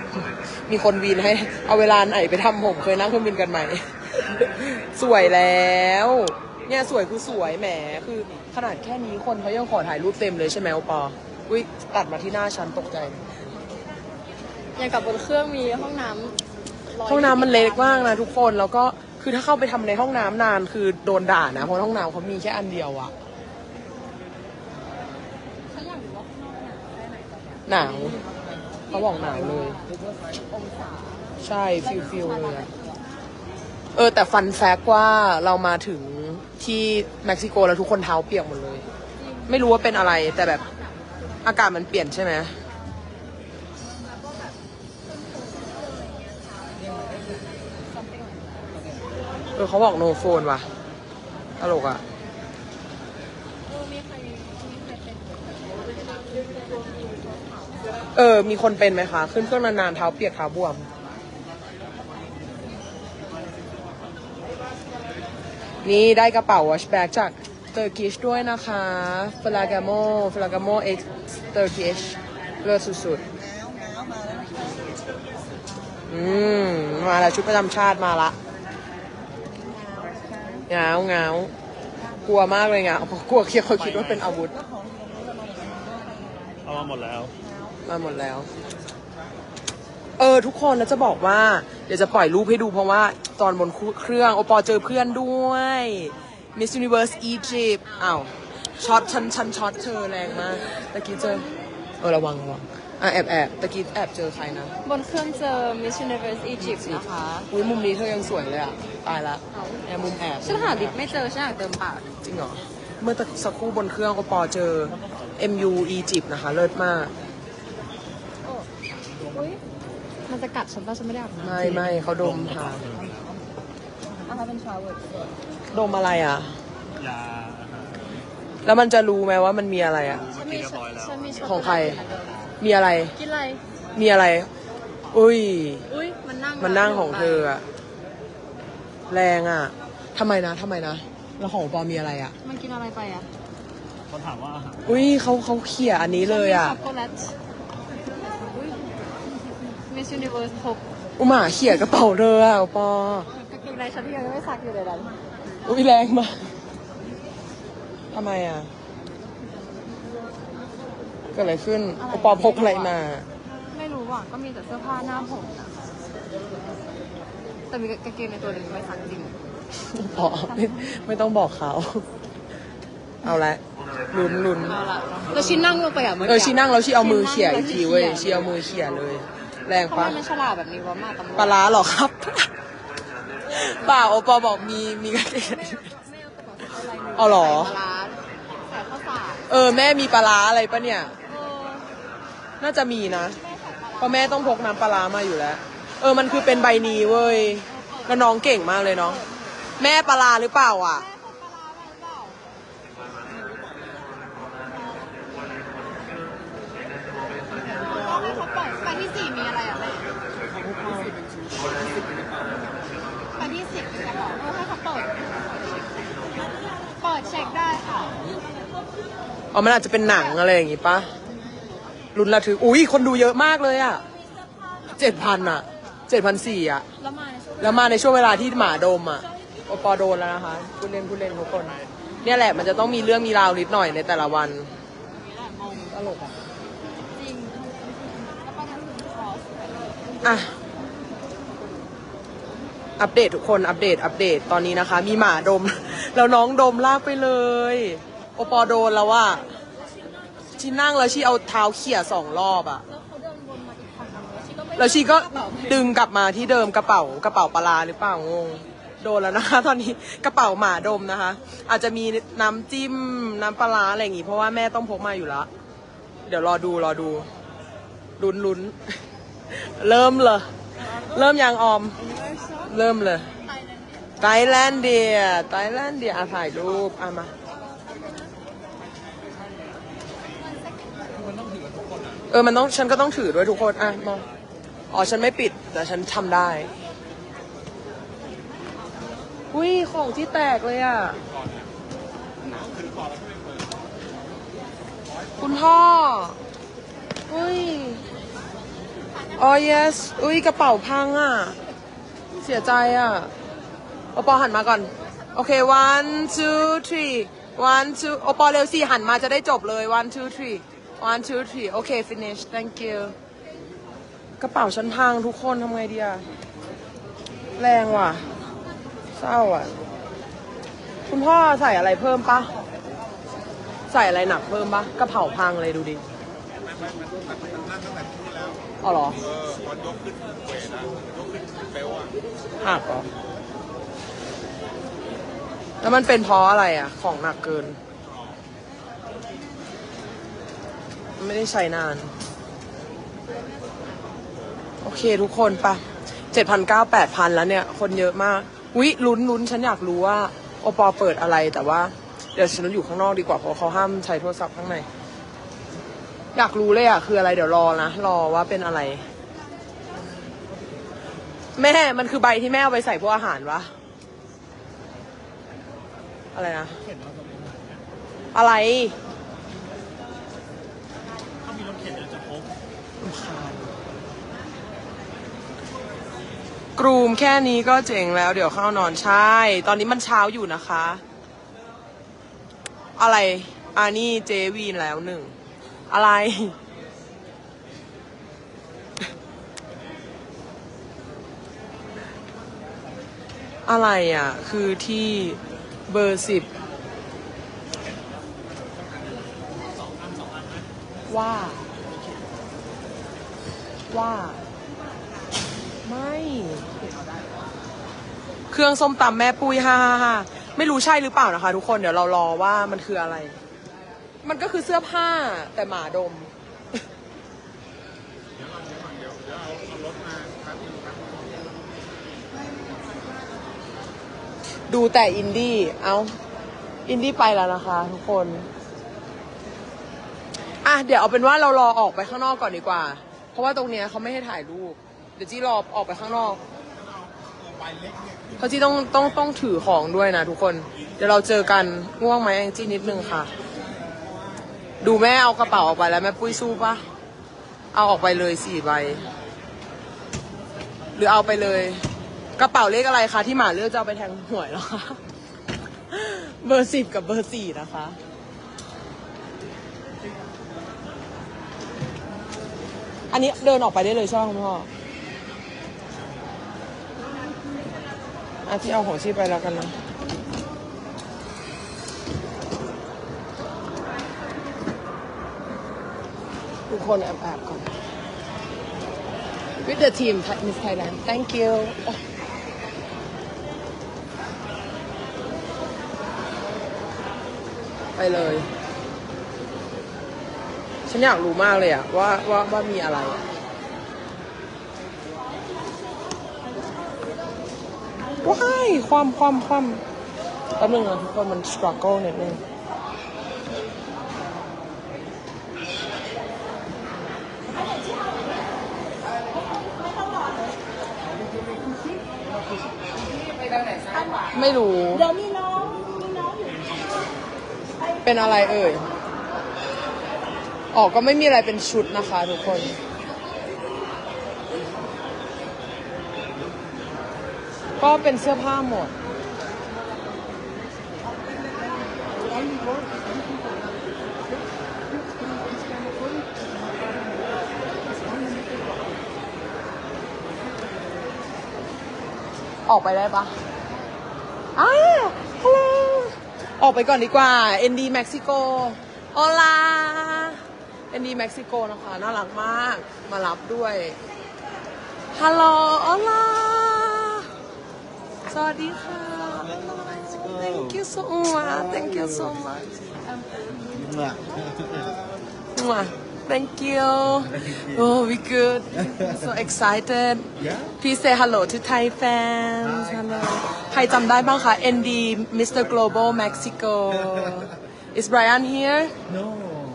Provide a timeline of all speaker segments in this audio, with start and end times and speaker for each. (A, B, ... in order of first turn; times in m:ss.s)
0:00.7-0:13.2 A
0:14.8-0:16.4 B
0:17.0-0:18.2 B
0:17.0-0:23.1 A
0:25.7-0:27.6 B
0:27.7-0:28.2 A
0:28.9-0:33.0 B
0:28.9-0:29.8 A
0:31.4-0:32.7 A
0:34.0-0:38.9 A
0:39.2-0:40.8 B
0:39.5-0:40.6 A
0:41.4-0:42.5 A
0:44.1-0:44.5 B
0:45.1-0:48.7 B
0:49.6-0:50.7 A
0:51.6-0:52.0 A
0:53.7-0:58.1 B
0:58.2-1:00.9 A
1:05.8-1:13.2 A
1:13.4-1:15.0 C
1:16.1-1:18.4 A
1:19.5-1:20.7 C
1:20.7-1:21.5 A
1:22.2-1:24.5 A
1:23.7-1:24.3 D
1:24.2-1:26.8 C
1:26.6-1:27.3 D
1:27.4-1:27.8 C
1:27.8-1:28.5 A
1:30.2-1:41.4 A
1:42.0-1:44.8 A
1:44.8-1:47.5 B
1:46.6-1:51.0 A
1:49.5-1:49.8 B
1:50.4-1:52.1 B
1:52.2-1:57.1 A
1:59.3-1:59.6 B
2:00.3-2:01.7 B
2:01.4-2:02.8 A
2:01.6-2:03.3 D
2:04.2-2:05.1 B
2:05.7-2:06.5 A
2:07.0-2:08.1 D
2:08.6-2:10.3 A
2:10.1-2:11.5 D
2:10.3-2:12.5 B
2:11.4-2:12.0 A
2:12.6-2:13.2 A
2:13.2-2:13.6 B
2:14.0-2:14.5 A
2:15.1-2:15.9 A
2:15.9-2:17.5 B
2:16.6-2:17.6 A
2:19.1-2:22.4 A
2:22.4-2:23.3 B
2:24.1-2:24.9 D
2:24.9-2:26.8 A
2:26.2-2:27.3 B
2:28.5-2:28.9 B
2:29.9-2:30.8 B
2:31.2-2:33.3 A
2:33.3-2:35.2 B
2:35.7-2:36.4 A
2:38.1-2:38.7 A
2:41.4-2:43.3 A
2:42.0-2:42.9 B
2:43.7-2:46.0 B
2:47.7-2:49.4 B
2:49.9-2:52.1 A
2:50.4-2:51.0 B
2:53.2-2:54.8 A
2:54.6-2:58.5 B
2:56.2-3:00.2 A
2:59.9-3:01.6 B
3:01.4-3:02.5 A
3:03.5-3:05.9 A
3:06.0-3:09.5 B
3:07.2-3:07.7 A
3:09.5-3:11.1 A
3:11.2-3:11.9 B
3:12.6-3:13.4 A
3:13.3-3:14.6 B
3:14.0-3:19.2 A
3:16.2-3:19.7 B
3:19.8-3:21.0 A
3:21.0-3:22.4 B
3:27.6-3:30.1 B
3:30.6-3:31.1 A
3:33.4-3:36.3 B
3:36.8-3:38.3 B
3:39.5-3:41.1 A
3:42.1-3:44.0 A
3:44.7-3:45.6 B
3:45.0-3:46.9 A
3:47.0-3:48.1 B
3:47.6-3:54.7 A
3:55.1-3:55.9 B
3:55.9-3:56.3 A
3:57.0-4:00.5 B
4:00.2-4:00.5 A
4:03.0-4:09.5 A
4:10.6-4:12.8 A
4:12.9-4:15.9 B
4:14.8-4:25.5 A
4:26.3-4:27.3 A
4:28.2-4:29.0 A
4:29.5-4:32.0 A
4:32.7-4:33.3 A
4:34.2-4:37.3 A
4:40.8-4:41.1 B
4:42.3-4:44.3 A
4:44.9-4:46.7 A
4:49.5-4:51.2 A
4:55.4-4:56.4 A
4:57.3-4:58.0 A
4:59.4-5:01.6 A
5:02.4-5:03.3 A
5:04.1-5:13.1 A
5:14.4-5:16.3 A
5:17.6-5:18.3 A
5:19.2-5:19.7 A
5:21.1-5:22.5 A
5:23.9-5:26.0 A
5:28.8-5:29.2 A
5:32.6-5:33.1 A
5:35.8-5:37.8 A
5:41.2-5:42.1 A
5:44.8-5:54.9 A
5:56.4-5:59.0 A
6:01.6-6:03.7 A
6:06.3-6:06.8 A
6:06.8-6:07.8 D
6:08.3-6:09.0 A
6:11.4-6:12.5 D
6:13.0-6:13.7 A
6:16.8-6:21.0 A
6:23.0-6:25.3 A
6:25.9-6:26.6 A
6:33.7-6:36.5 A
6:41.1-6:41.7 A
6:43.9-6:44.4 A
6:45.8-6:46.7 A
6:48.5-6:53.4 A
6:54.2-6:56.3 A
7:04.7-7:06.2 A
7:06.9-7:08.5 A
7:10.6-7:16.4 A
7:18.4-7:23.3 A
7:24.8-7:26.8 A
7:27.7-7:29.1 A
7:31.0-7:31.8 A
7:32.4-7:35.0 A
7:35.9-7:38.0 A
7:43.1-7:44.7 A
7:48.5-7:49.8 A
7:56.7-7:57.7 A
7:59.6-8:02.0 A
8:08.0-8:08.5 A
8:10.9-8:13.2 A
8:18.2-8:19.8 A
8:20.6-8:22.4 A
8:34.3-8:35.1 A
8:35.1-8:36.7 C
8:38.0-8:38.9 A
8:40.7-8:42.8 A
8:47.8-8:48.9 A
9:02.7-9:03.4 A
9:04.6-9:14.0 A
9:15.1-9:17.3 A
9:18.3-9:22.7 A
9:23.9-9:24.2 C
9:25.6-9:39.0 A